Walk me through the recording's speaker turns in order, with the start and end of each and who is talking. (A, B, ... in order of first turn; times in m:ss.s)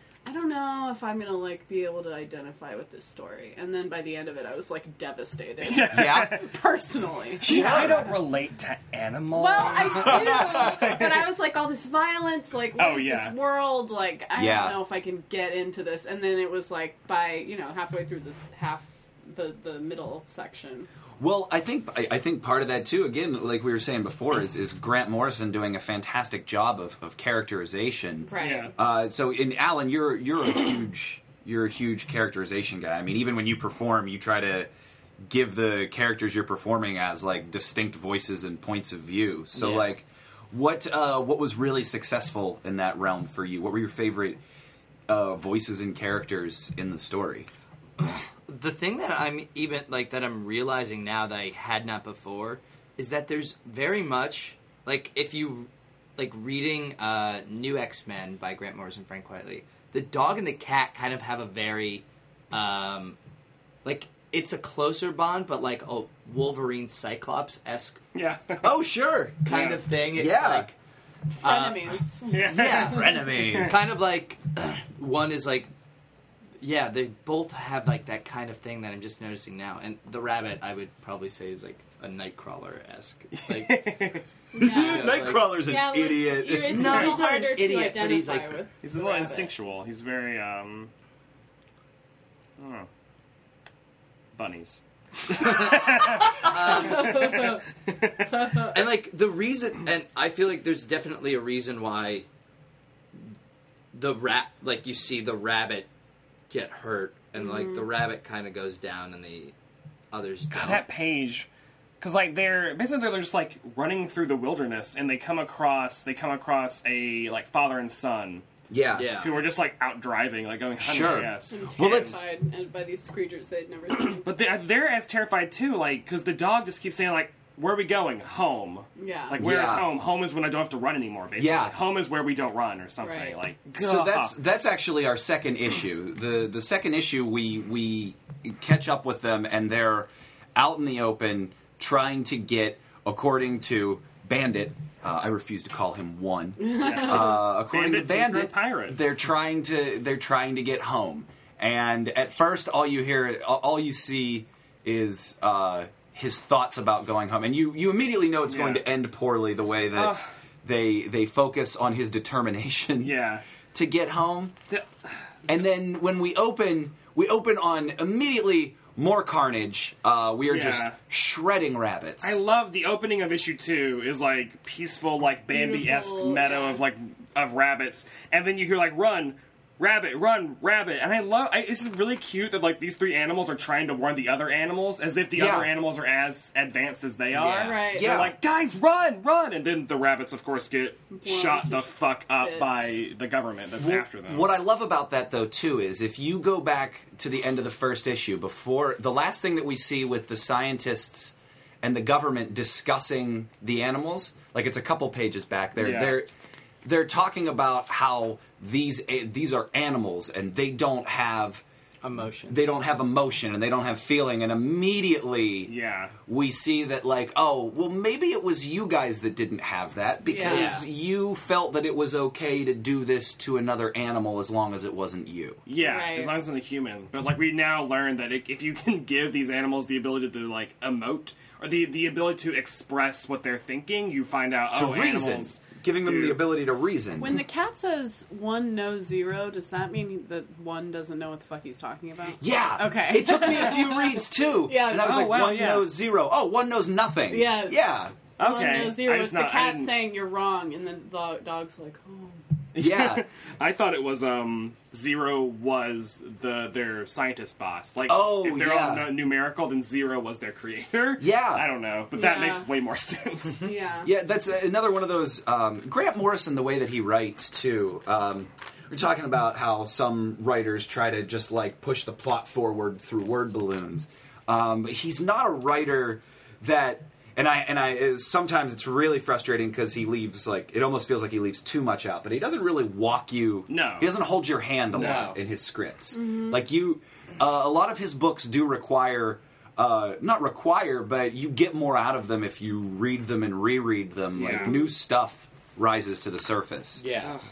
0:00.2-0:08.2 A
0:05.6-0:06.5 B
0:05.9-0:06.4 C
0:07.4-0:08.1 C
0:07.4-0:11.3 B
0:09.4-0:20.9 A
0:09.9-0:10.8 C
0:12.8-0:13.4 B
0:14.4-0:14.8 C
0:21.2-0:34.7 C
0:28.2-0:28.8 A
0:28.4-0:28.7 B
0:35.3-0:44.4 C
0:39.6-0:39.9 D
0:45.1-0:47.5 C
0:48.0-1:03.2 D
1:03.8-1:08.0 D
1:08.2-1:08.6 B
1:08.6-1:10.7 C
1:09.4-1:10.7 D
1:09.5-1:09.8 B
1:11.4-1:13.1 A
1:11.4-1:15.7 D
1:12.3-1:13.8 B
1:12.8-1:13.8 C
1:16.6-1:24.0 D
1:23.4-1:24.2 B
1:24.5-1:25.1 A
1:24.6-1:27.1 C
1:24.6-1:25.6 D
1:25.6-1:29.5 A
1:26.6-1:28.6 D
1:28.8-1:30.9 B
1:32.6-1:32.9 B
1:34.4-1:38.5 B
1:35.3-1:37.6 D
1:36.7-1:37.6 A
1:38.3-1:38.8 A
1:38.6-1:42.3 D
1:43.9-1:45.9 D
1:46.5-1:49.5 D
1:47.4-1:47.8 A
1:50.1-1:50.8 D
1:50.5-1:51.5 B
1:52.0-1:58.4 B
1:58.7-1:59.1 C
1:59.0-1:59.4 D
1:59.2-2:02.1 B
2:00.8-2:02.2 C
2:01.5-2:04.3 A
2:04.1-2:14.4 B
2:09.0-2:09.4 A
2:09.4-2:09.9 C
2:11.4-2:11.8 C
2:13.0-2:13.4 A
2:13.8-2:43.1 C
2:26.6-2:27.4 A
2:26.8-2:29.0 B
2:38.5-2:38.8 B
2:40.0-2:40.2 B
2:43.0-2:43.4 B
2:43.7-2:44.6 C
2:44.7-2:45.1 B
2:45.5-2:52.4 C
2:50.5-2:51.0 B
2:52.2-3:14.5 B
2:55.5-2:56.8 A
3:05.4-3:05.7 C
3:07.4-3:07.8 D
3:07.6-3:08.2 A
3:07.9-3:08.4 C
3:11.1-3:13.0 A
3:13.8-3:26.3 C
3:25.8-3:26.2 B
3:26.8-3:31.6 C
3:32.0-3:32.6 D
3:32.5-3:35.7 C
3:35.7-3:36.1 B
3:36.2-3:45.6 C
3:40.3-3:40.7 A
3:40.5-3:40.8 D
3:45.7-3:56.4 B
3:45.8-3:46.3 A
3:54.7-3:57.4 C
3:57.2-4:05.3 A
4:02.4-4:08.2 C
4:04.9-4:05.9 B
4:07.3-4:12.4 A
4:08.4-4:09.9 B
4:12.7-4:23.7 B
4:12.8-4:13.2 C
4:18.1-4:19.1 C
4:21.2-4:21.7 C
4:22.2-4:22.7 A
4:23.6-4:24.1 A
4:24.0-4:57.0 C
4:43.7-4:44.2 B
4:44.9-4:45.4 D
4:46.1-4:46.6 A
4:54.4-4:54.7 B
4:57.0-4:57.4 D